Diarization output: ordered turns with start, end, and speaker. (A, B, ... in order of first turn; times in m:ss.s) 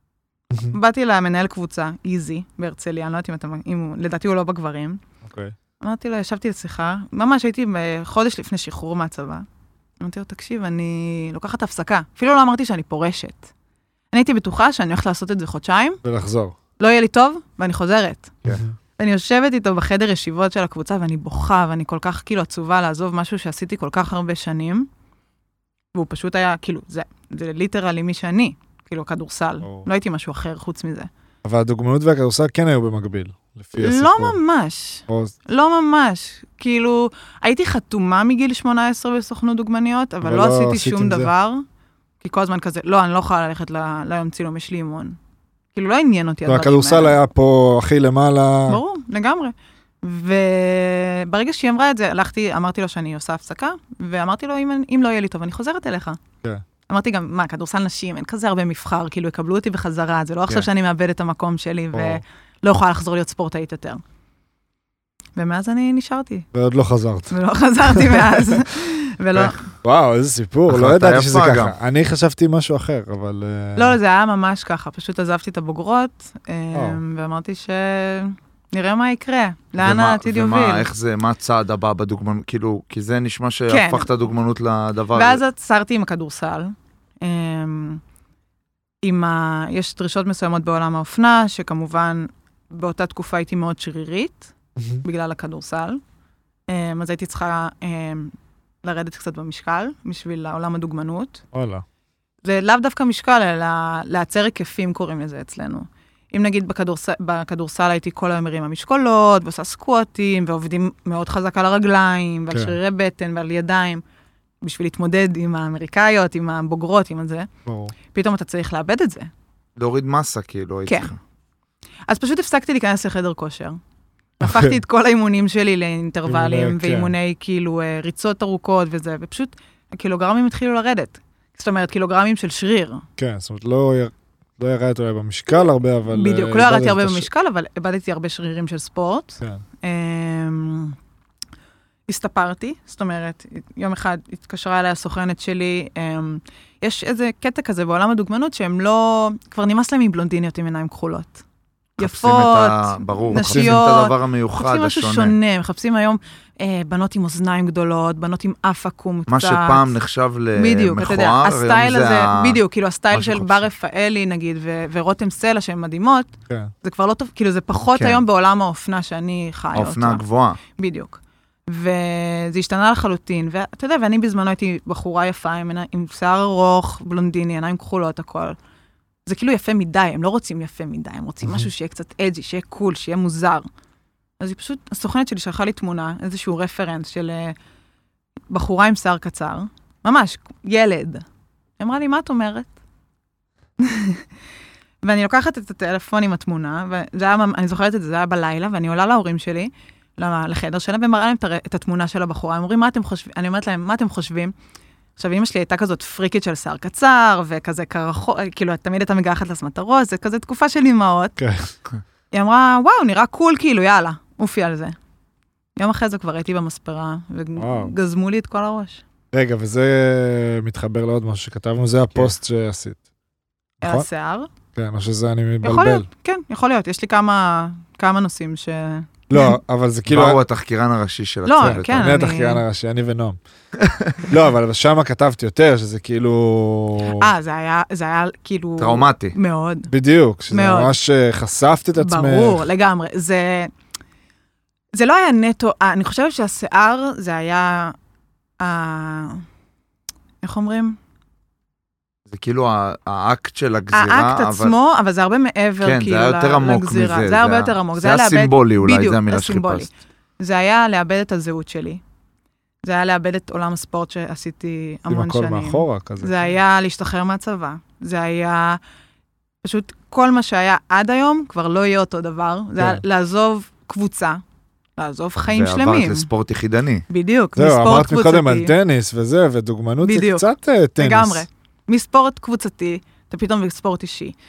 0:00.5-0:00.8 A
0:00.7-0:05.0 B
0:05.2-0:05.6 A
0:05.8-0:09.5 B
0:10.0-0:13.5 B
0:14.1-0:16.0 B
0:16.0-0:16.6 A
0:16.8-0:18.4 B
0:18.5-0:18.7 A
0:19.0-0:24.9 B
0:25.9-0:31.1 B
0:31.4-0:34.4 A
0:33.8-0:41.6 B
0:35.1-0:35.3 A
0:40.2-0:41.3 A
0:42.2-0:45.2 B
0:45.7-0:47.2 B
0:46.5-0:48.8 A
0:48.7-0:56.2 B
0:56.9-1:04.0 B
1:01.9-1:02.2 A
1:05.4-1:06.5 B
1:06.5-1:07.4 A
1:07.3-1:09.6 B
1:07.9-1:08.6 A
1:09.8-1:14.0 A
1:10.7-1:11.8 C
1:13.8-1:20.9 B
1:16.7-1:17.0 A
1:19.8-1:25.4 C
1:23.7-1:24.1 B
1:25.1-1:28.0 B
1:29.0-1:36.0 B
1:34.8-1:35.0 A
1:36.7-1:41.4 B
1:41.5-1:41.8 A
1:42.4-1:54.0 B
1:52.5-1:52.8 A
1:54.6-1:57.5 B
1:57.7-1:57.9 A
1:58.1-1:59.3 B
1:59.8-2:01.2 C
2:00.9-2:01.1 B
2:02.1-2:03.8 B
2:04.4-2:13.0 B
2:04.4-2:04.8 A
2:06.3-2:07.1 A
2:13.2-2:17.3 A
2:16.1-2:21.0 B
2:22.1-2:31.4 B
2:32.0-2:39.9 B
2:32.0-2:35.4 C
2:33.3-2:33.8 A
2:39.3-2:42.6 C
2:40.6-2:46.3 B
2:43.1-2:43.7 C
2:46.8-2:58.6 B
2:48.0-2:48.2 C
2:49.7-2:50.6 C
2:59.3-3:03.7 B
3:04.4-3:07.6 B
3:08.5-3:11.2 B
3:11.8-3:12.7 B
3:13.8-3:14.2 B
3:15.0-3:24.5 B
3:25.2-3:31.4 B
3:31.4-3:31.7 A
3:32.3-3:35.0 B
3:35.8-3:39.0 B
3:37.6-3:37.9 A
3:39.3-3:43.0 A
3:43.8-3:44.1 A
3:43.8-3:44.5 B
3:44.8-3:46.1 A
3:45.6-3:49.6 B
3:49.3-3:50.4 A
3:50.1-3:52.2 C
3:51.4-3:52.6 B
3:51.6-3:53.4 A
3:53.8-3:54.2 C
3:54.2-3:57.3 A
3:57.1-3:59.9 B
3:58.8-3:59.4 C
3:59.9-4:02.6 A
4:00.5-4:00.9 B
4:02.0-4:03.7 B
4:05.0-4:08.0 B
4:08.6-4:09.4 B
4:10.4-4:11.0 B
4:12.3-4:14.8 C
4:13.9-4:22.0 B
4:15.8-4:19.9 C
4:22.8-4:28.8 B
4:25.1-4:26.5 A
4:29.6-4:34.4 B
4:32.8-4:33.0 A
4:35.0-4:36.3 B
4:35.5-4:37.1 C
4:37.1-4:38.7 B
4:37.6-4:41.5 A
4:40.0-4:40.4 B
4:41.0-4:44.4 B